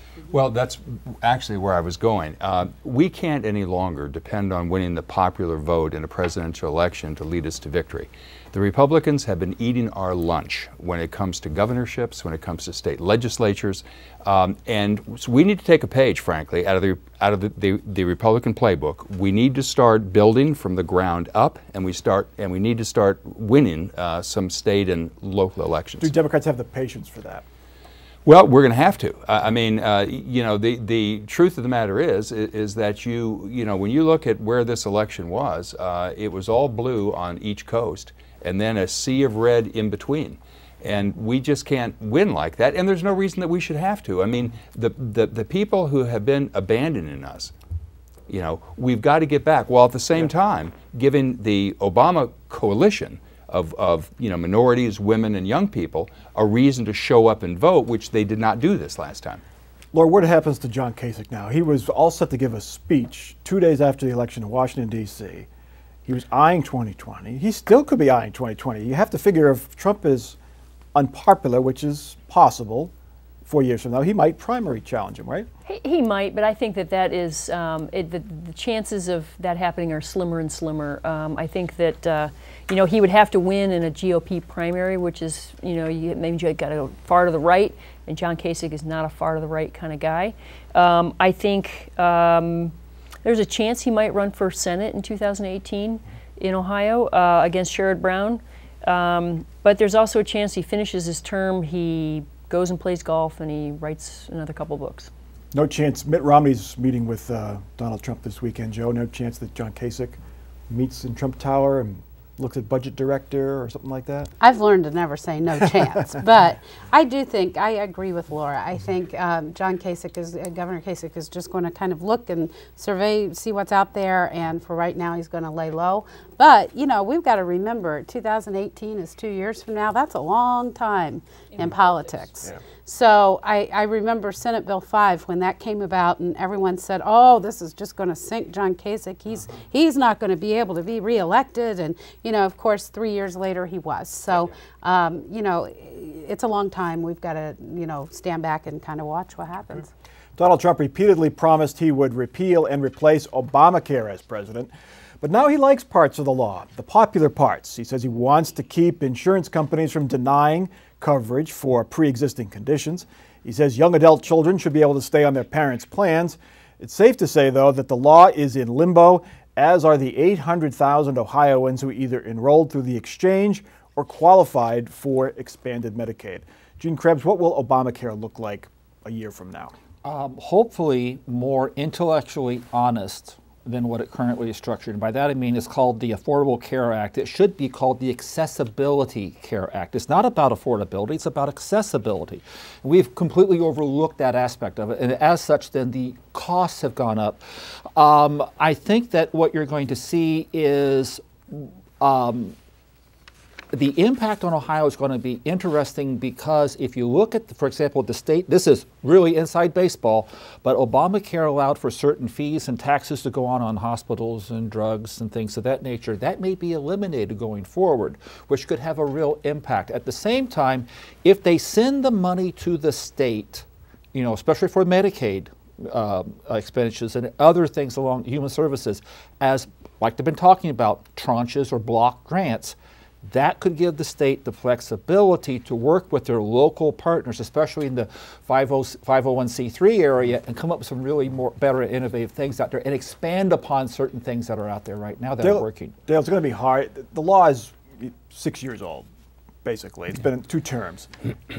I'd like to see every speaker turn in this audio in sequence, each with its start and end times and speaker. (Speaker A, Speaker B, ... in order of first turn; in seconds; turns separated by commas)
Speaker A: 0.3-26.1, Speaker B: 26.0-27.4, Speaker A: 28.2-47.5, Speaker A: 48.3-59.4, Speaker B: 59.9-65.5, Speaker B: 66.0-70.3, Speaker B: 70.9-72.9, Speaker B: 73.5-75.5, Speaker C: 75.7-105.1, Speaker B: 105.5-110.2, Speaker B: 110.7-114.3, Speaker D: 114.4-149.9, Speaker C: 131.5-132.3, Speaker B: 150.4-179.7, Speaker E: 180.0-197.4, Speaker E: 197.9-202.5, Speaker E: 203.7-245.9, Speaker B: 245.4-249.1, Speaker B: 249.6-251.1